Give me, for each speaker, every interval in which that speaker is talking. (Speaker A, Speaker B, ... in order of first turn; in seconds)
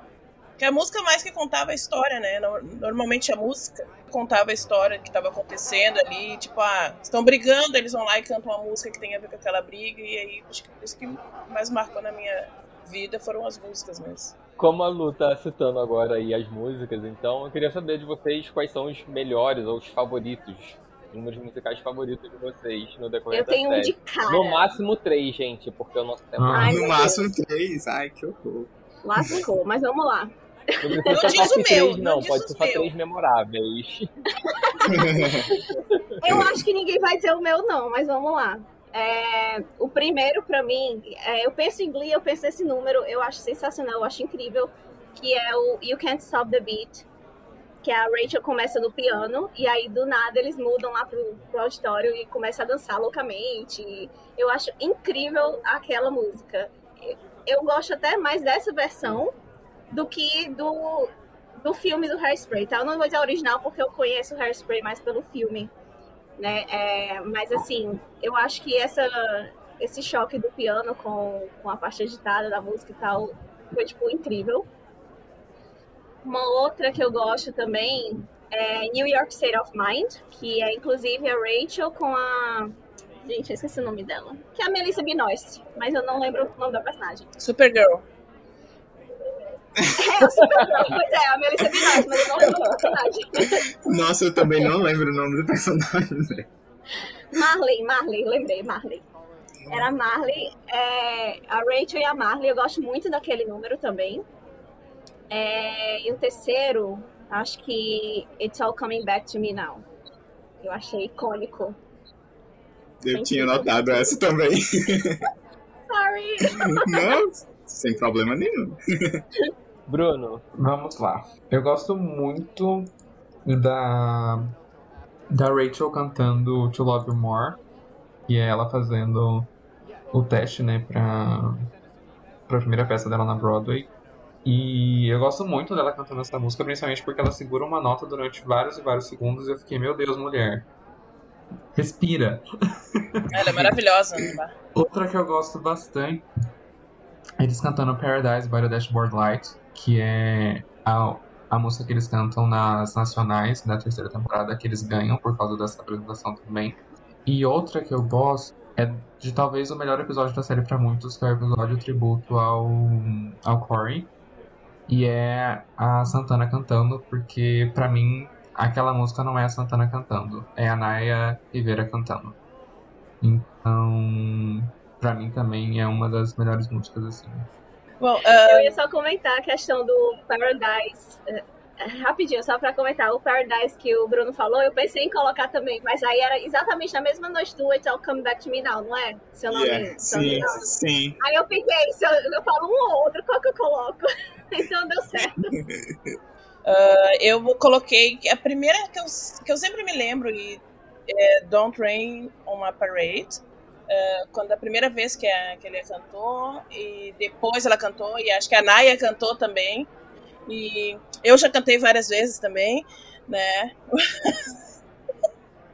Speaker A: 0.6-14.3, 31.1-32.9, 87.4-88.0, 143.3-144.5, 178.0-178.8, 196.7-209.9, 210.5-214.4
Speaker B: 14.6-26.7, 30.8-34.0, 119.9-120.4
Speaker C: 23.3-24.7, 26.5-27.3, 29.0-31.4, 34.6-35.2, 36.2-47.0, 47.8-59.3, 59.9-61.1, 61.6-65.7, 66.4-74.7, 76.2-87.3, 90.0-93.6, 97.3-99.0, 99.7-104.2, 105.3-109.8, 110.6-111.8, 113.1-114.1, 115.9-117.1, 178.3-195.5
Speaker D: 26.4-26.8, 120.6-122.9, 123.4-124.5, 125.3-127.6, 128.3-129.5, 130.1-131.6, 132.5-133.9, 134.4-140.7, 141.7-142.4, 143.4-143.7, 144.8-146.2, 147.4-164.1, 164.9-172.4, 173.2-177.5
Speaker E: 26.6-29.4, 34.9-35.5, 36.2-36.6, 93.3-96.4, 113.0-115.2, 116.5-119.2, 189.5-191.2, 195.2-195.9